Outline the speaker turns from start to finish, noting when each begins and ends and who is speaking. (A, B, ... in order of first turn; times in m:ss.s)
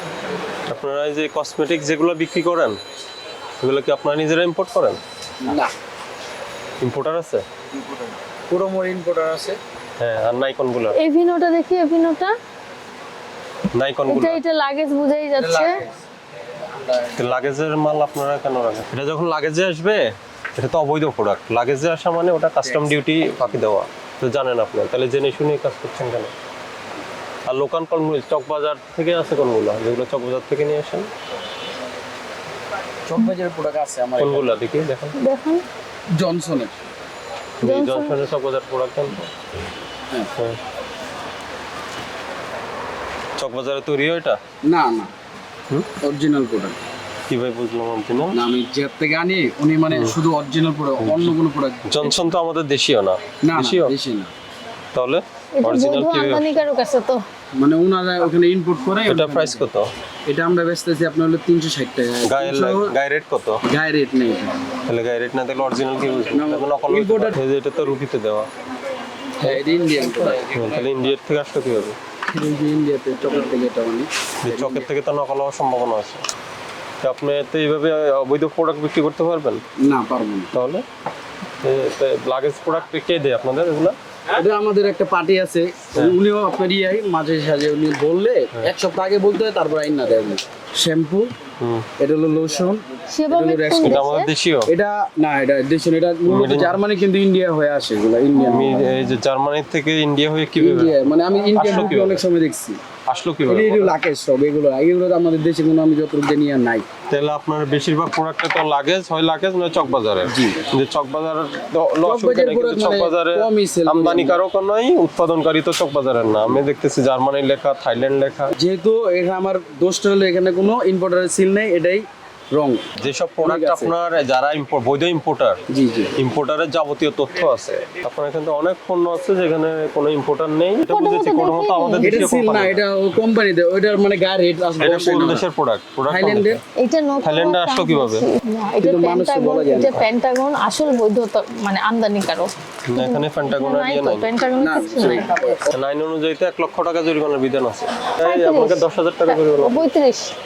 0:00.7-0:02.8 A
0:03.6-0:05.0 A
0:05.4-0:05.7 B
0:06.8-0:07.4 A
0:07.8-0:09.6 B
0:10.0-0:11.0 A
0:11.0-0:12.4 C
0:13.7-0:14.4 A
0:14.1-0:15.8 C
0:15.4-0:17.2 B
0:17.2-0:26.3 A
0:22.6-0:23.0 B
0:27.5-0:31.1 A
0:33.1-0:34.6 B
0:34.2-0:35.2 A
0:35.2-0:35.6 C
0:36.2-0:36.8 B
0:37.6-0:39.3 A
0:37.6-0:38.2 C
0:43.4-0:44.4 A
0:44.6-0:45.1 B
0:46.0-0:46.8 B
0:47.3-0:48.4 A
0:48.3-0:52.2 B
0:49.9-0:50.2 A
0:51.0-0:51.4 A
0:51.9-0:53.9 A
0:53.4-0:54.3 B
0:54.9-0:56.6 A
0:55.6-0:57.2 C
0:57.6-0:59.7 B
0:59.1-0:59.9 A
1:00.3-1:03.0 B
1:02.2-1:03.6 A
1:03.6-1:04.6 B
1:04.9-1:08.5 A
1:06.3-1:07.4 B
1:09.4-1:10.9 B
1:10.4-1:12.0 A
1:12.3-1:14.9 B
1:14.4-1:16.2 A
1:17.0-1:19.6 A
1:19.8-1:20.5 B
1:20.5-1:20.8 A
1:21.6-1:24.0 A
1:24.3-1:31.3 B
1:31.6-1:31.9 A
1:32.0-1:34.1 B
1:33.1-1:34.3 C
1:33.8-1:34.7 A
1:34.7-1:38.9 B
1:36.3-1:36.8 A
1:38.4-1:42.2 A
1:40.6-1:42.8 B
1:43.1-1:43.9 A
1:43.5-1:46.8 B
1:47.1-1:58.5 A
1:50.3-1:50.7 B
1:52.0-1:54.4 B
1:58.6-2:02.8 B
2:03.0-2:05.6 A
2:03.4-2:03.9 B
2:05.7-2:06.1 B
2:06.2-2:12.8 A
2:10.9-2:12.2 C
2:12.0-2:15.5 B
2:14.8-2:16.6 A
2:16.1-2:16.6 B
2:16.8-2:25.6 C
2:17.2-2:18.3 A
2:18.8-2:20.0 B
2:22.9-2:24.3 A
2:24.6-2:25.8 B
2:25.7-2:29.9 A
2:28.2-2:30.3 C